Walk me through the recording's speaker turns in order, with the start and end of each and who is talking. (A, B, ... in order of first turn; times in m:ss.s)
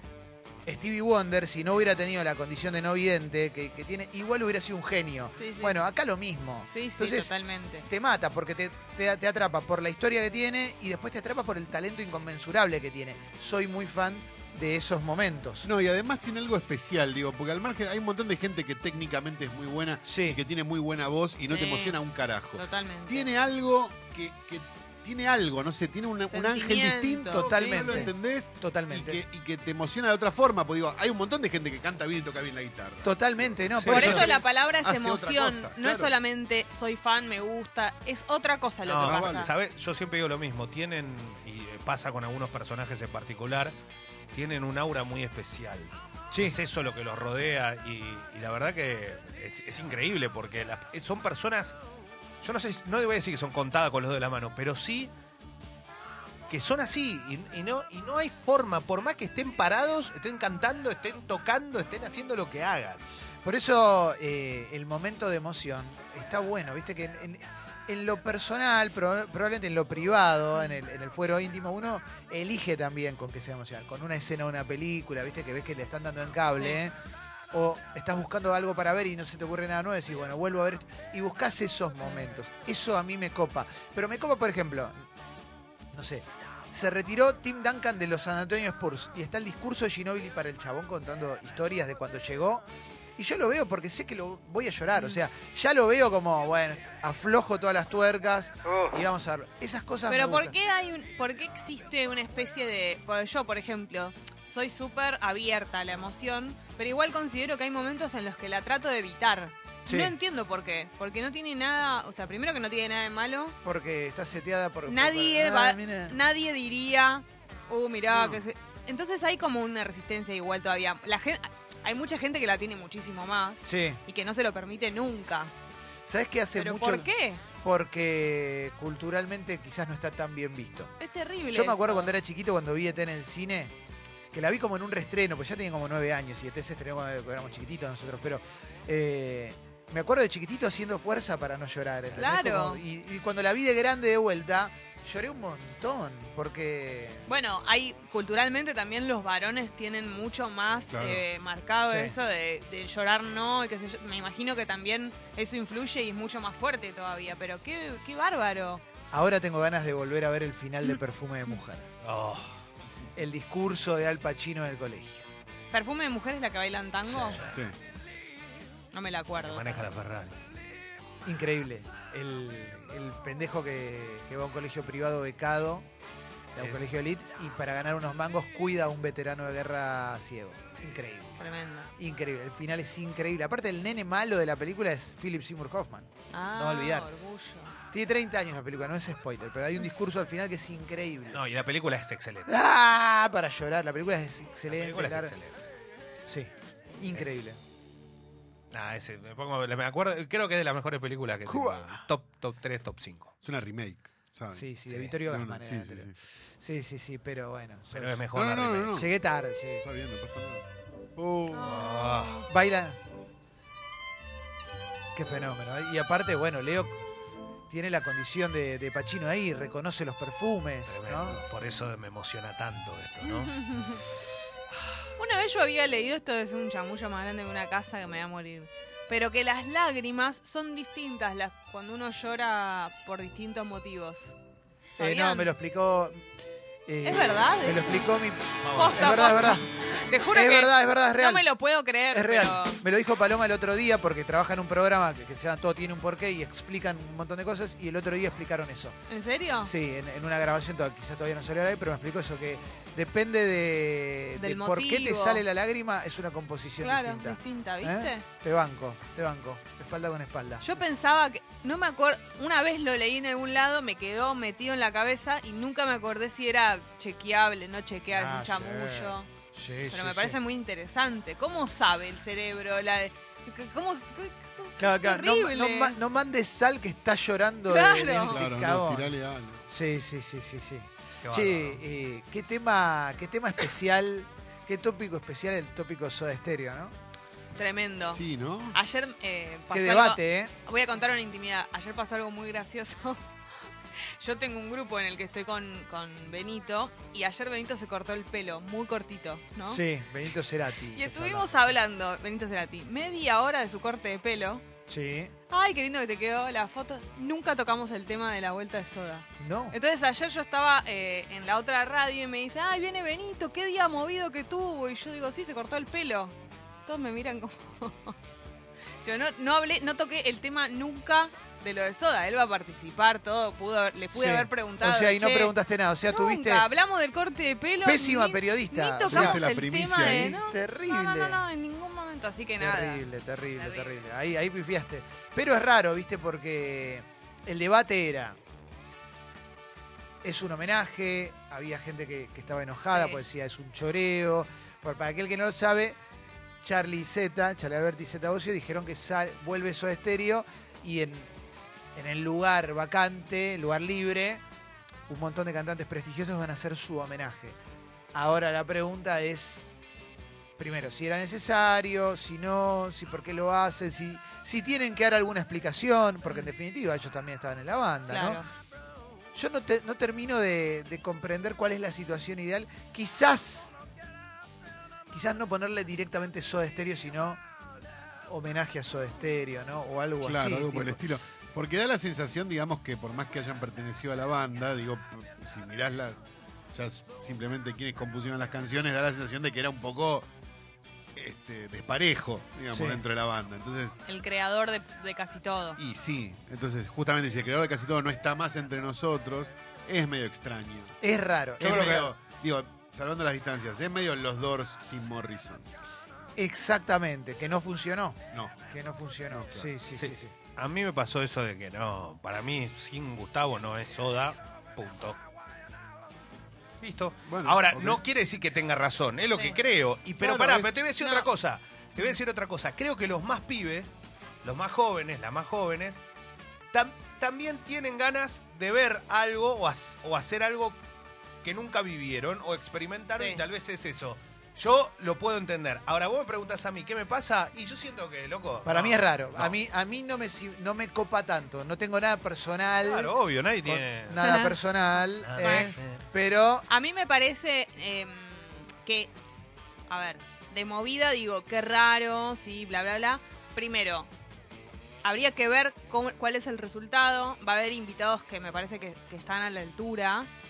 0:00.6-0:15.7 A
0:05.4-0:05.8 B
0:06.7-0:07.9 B
0:15.6-0:36.2 C
0:20.0-0:20.4 A
0:21.5-0:22.0 B
0:22.5-0:23.3 B
0:26.3-0:28.1 B
0:27.3-0:29.2 A
0:33.0-0:34.3 A
0:33.8-0:39.5 B
0:38.8-0:43.8 D
0:39.0-0:39.5 C
0:44.3-0:51.8 D
0:46.3-0:46.6 A
0:52.4-0:55.1 D
0:56.5-1:03.0 D
1:03.4-1:16.9 A
1:17.5-1:25.0 A
1:25.9-1:32.6 A
1:33.2-1:40.5 A
1:34.9-1:35.2 B
1:40.1-1:53.6 B
1:49.9-1:50.1 A
1:53.6-1:56.2 A
1:54.9-2:05.5 B
1:58.1-1:58.4 A
2:03.6-2:04.0 A
2:06.1-2:07.1 A
2:06.6-2:07.4 B
2:07.6-2:10.9 A
2:11.0-2:12.1 B
2:11.5-2:13.7 A
2:14.3-2:27.3 A
2:22.1-2:22.8 B
2:27.3-2:38.8 B
2:30.9-2:31.2 C
2:31.8-2:32.2 A
2:39.1-2:41.9 A
2:42.0-2:42.6 D
2:43.2-2:45.2 A
2:45.7-2:47.5 B
2:47.1-2:47.6 D
2:48.9-2:49.9 B
2:49.4-2:50.4 D
2:51.2-2:55.8 A
2:56.6-3:01.5 A
2:56.6-2:56.9 D
3:01.4-3:01.9 B
3:02.0-3:07.1 A
3:06.3-3:07.7 B
3:07.9-3:11.4 A
3:11.3-3:12.5 D
3:12.5-3:15.4 A
3:14.7-3:15.6 D
3:16.2-3:17.6 A
3:17.1-3:17.4 D
3:18.7-3:23.3 D
3:21.4-3:22.0 A
3:23.4-3:24.7 C
3:24.5-3:28.2 A
3:24.9-3:25.2 D
3:25.2-3:26.2 C
3:27.9-3:29.0 D
3:28.4-3:29.1 C
3:29.0-3:29.8 A
3:29.8-3:30.6 C
3:31.2-3:31.8 C
3:31.5-3:32.5 B
3:31.7-3:32.4 D
3:32.5-3:33.0 A
3:35.2-3:37.0 A
3:37.7-3:41.4 A
3:40.9-3:43.6 D
3:43.3-3:44.0 B
3:45.2-3:54.4 B
3:55.0-3:55.5 B
3:55.0-3:56.2 A
3:56.9-3:59.6 A
3:57.0-3:58.2 B
3:58.6-3:59.2 D
3:58.7-4:02.8 B
4:00.3-4:01.5 A
4:02.1-4:09.0 A
4:09.1-4:09.7 B
4:09.6-4:20.7 A
4:14.4-4:15.4 B
4:16.8-4:18.2 B
4:20.6-4:29.3 B
4:28.1-4:30.4 A
4:29.9-4:36.0 B
4:34.8-4:39.2 A
4:37.7-4:38.4 B
4:38.3-4:39.7 C
4:39.7-4:46.9 A
4:41.2-4:41.8 D
4:47.6-4:53.2 B
4:48.0-4:48.8 C
4:49.7-4:50.5 A
4:54.2-4:59.8 B
4:59.7-5:01.8 A
5:00.9-5:04.6 B
5:04.9-5:05.3 A
5:05.5-5:18.2 B
5:09.4-5:09.8 A
5:19.0-5:25.5 B
5:24.1-5:26.7 A
5:26.1-5:33.9 B
5:27.8-5:29.4 A
5:29.1-5:30.4 C
5:30.0-5:31.4 A
5:32.6-5:38.4 A
5:40.2-5:46.0 A
5:42.8-5:43.2 B
5:46.6-5:51.3 A
5:52.0-5:54.4 A
5:55.1-5:57.6 A
5:58.1-5:59.6 A
6:00.6-6:08.4 A
6:08.1-6:08.4 B
6:09.4-6:13.7 A
6:15.1-6:17.4 A
6:18.3-6:21.1 A
6:20.2-6:26.2 C
6:26.7-6:30.3 C
6:31.2-6:34.0 C
6:32.7-6:33.0 A
6:34.0-6:35.8 B
6:35.8-6:41.0 C
6:41.0-6:42.1 A
6:41.6-6:45.7 C
6:46.4-6:50.3 A
6:49.3-6:49.7 C
6:50.0-6:55.2 D
6:56.8-7:03.9 D
6:57.3-6:58.0 C
6:59.3-6:59.6 B
7:00.2-7:00.8 C
7:01.0-7:01.3 B
7:04.4-7:06.0 D
7:06.7-7:10.8 D
7:11.4-7:19.6 D
7:13.1-7:13.4 B
7:18.6-7:26.7 A
7:22.8-7:24.2 D
7:24.2-7:24.6 B
7:25.2-7:26.0 D
7:25.4-7:25.8 B
7:26.7-7:29.1 B
7:29.9-7:34.1 B
7:35.0-7:40.3 B